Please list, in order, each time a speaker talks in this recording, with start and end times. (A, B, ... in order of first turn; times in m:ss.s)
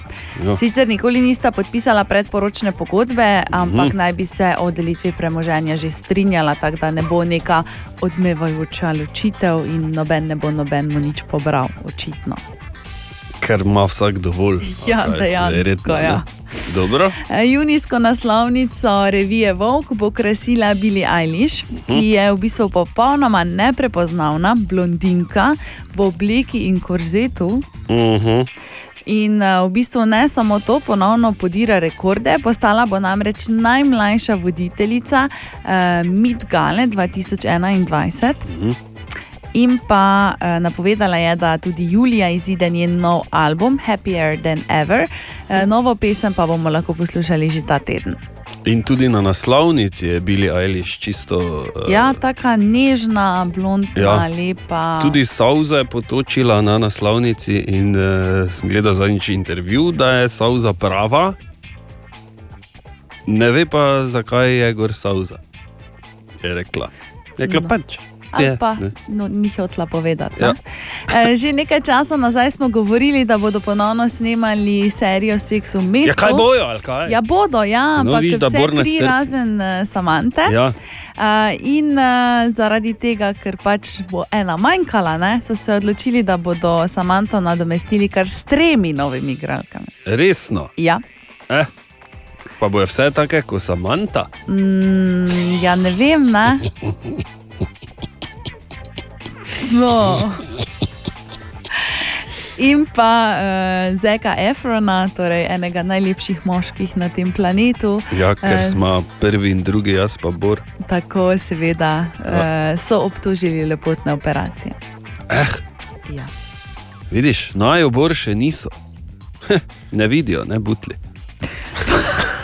0:00.5-0:12.4 A
0:03.5-0:03.9 B
0:13.4-0:17.2 B
0:14.6-0:16.6 A
0:17.2-0:27.6 A
0:27.9-0:28.5 B
0:29.1-0:38.4 A
0:38.4-0:38.8 B
0:39.5-0:48.2 A
0:48.6-0:52.2 B
0:51.9-0:55.2 A
0:54.0-0:54.3 B
0:55.0-1:01.4 B
1:03.3-1:05.4 B
1:06.4-1:08.9 B
1:07.4-1:07.7 A
1:08.3-1:16.4 A
1:16.0-1:17.2 B
1:17.0-1:20.6 A
1:18.0-1:19.2 B
1:20.4-1:20.7 B
1:21.2-1:29.9 A
1:30.0-1:30.7 B
1:30.8-1:31.0 A
1:32.6-1:34.3 B
1:34.5-1:36.7 A
1:39.6-1:40.4 A
1:42.6-1:49.1 A
1:48.1-1:50.6 B
1:50.8-1:54.8 A
1:55.3-1:55.6 B
1:57.1-1:58.7 B
1:59.5-2:01.0 B